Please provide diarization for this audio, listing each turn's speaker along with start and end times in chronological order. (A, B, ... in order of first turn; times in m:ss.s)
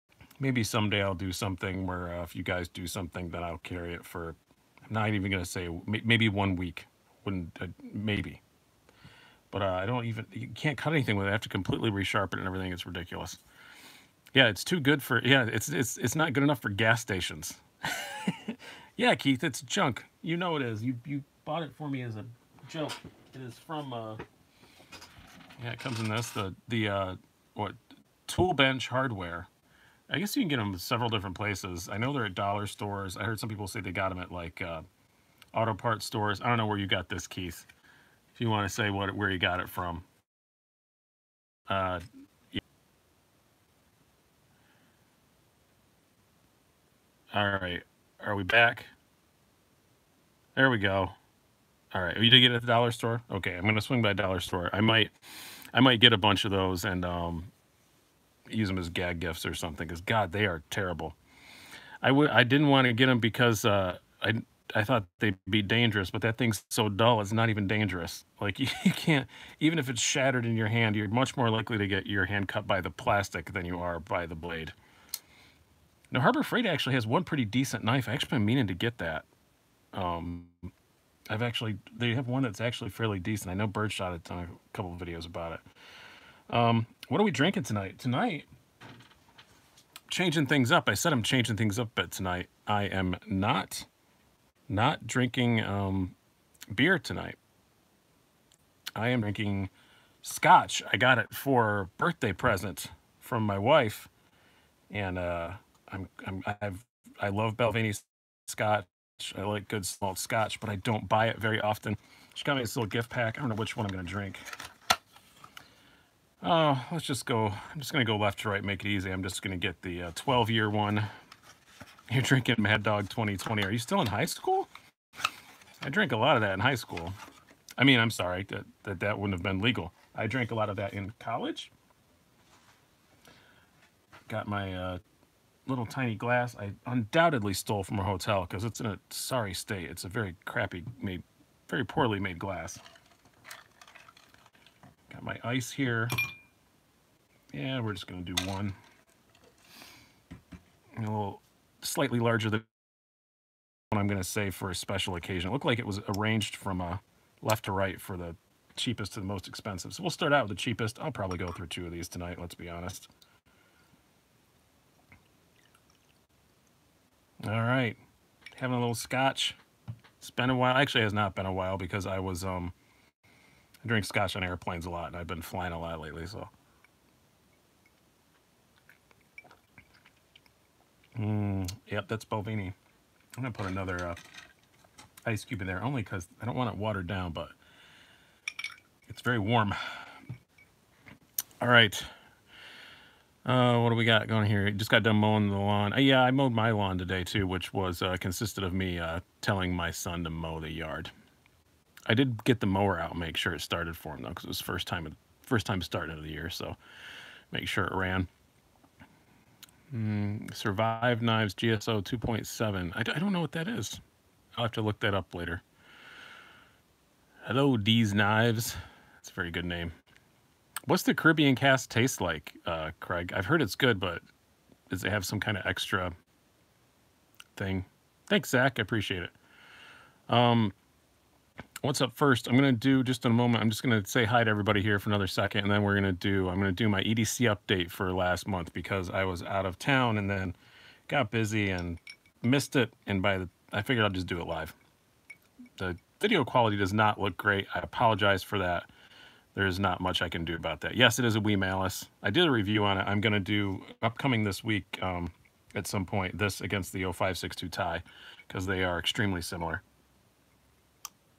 0:00.4-0:08.4 A
0:09.5-0:13.4 A
0:14.3-0:24.2 A
0:25.6-0:29.5 A
0:30.1-0:34.8 A
0:35.5-0:37.7 A
0:38.3-0:40.1 A
0:41.7-0:42.0 A
0:47.3-0:48.9 A
0:50.6-0:51.2 A
0:51.9-0:55.1 A
0:55.7-0:57.5 A
0:58.5-1:01.2 A
1:02.0-1:14.7 A
1:16.1-1:19.2 A
1:19.9-1:20.7 A
1:21.3-1:25.6 A
1:26.5-1:28.5 A
1:30.1-1:33.9 A
1:34.7-1:36.1 A
1:36.7-1:37.4 A
1:38.9-1:39.7 A
1:40.2-1:44.1 A
1:44.9-1:54.4 A
1:56.4-2:01.1 A
2:02.1-2:04.7 A
2:05.8-2:07.2 A
2:07.8-2:11.7 A
2:14.3-2:15.0 A
2:15.7-2:22.8 A
2:25.1-2:26.1 A
2:27.5-2:28.8 A
2:31.0-2:32.7 A
2:33.9-2:43.1 A
2:47.4-2:48.0 A
2:48.5-2:49.6 A
2:50.2-2:52.7 A
2:53.8-2:56.5 A
3:01.1-3:02.7 A
3:03.4-3:04.2 A
3:05.2-3:07.5 A
3:09.1-3:10.1 A
3:11.6-3:12.1 A
3:13.4-3:21.1 A
3:22.1-3:26.8 A
3:27.5-3:28.3 A
3:29.9-3:34.0 A
3:34.6-3:35.6 A
3:37.4-3:39.9 A
3:40.9-3:44.2 A
3:44.9-3:46.1 A
3:47.6-3:49.3 A
3:50.3-3:50.7 A
3:51.8-4:00.5 A
4:01.1-4:04.8 A
4:05.8-4:08.9 A
4:09.5-4:19.8 A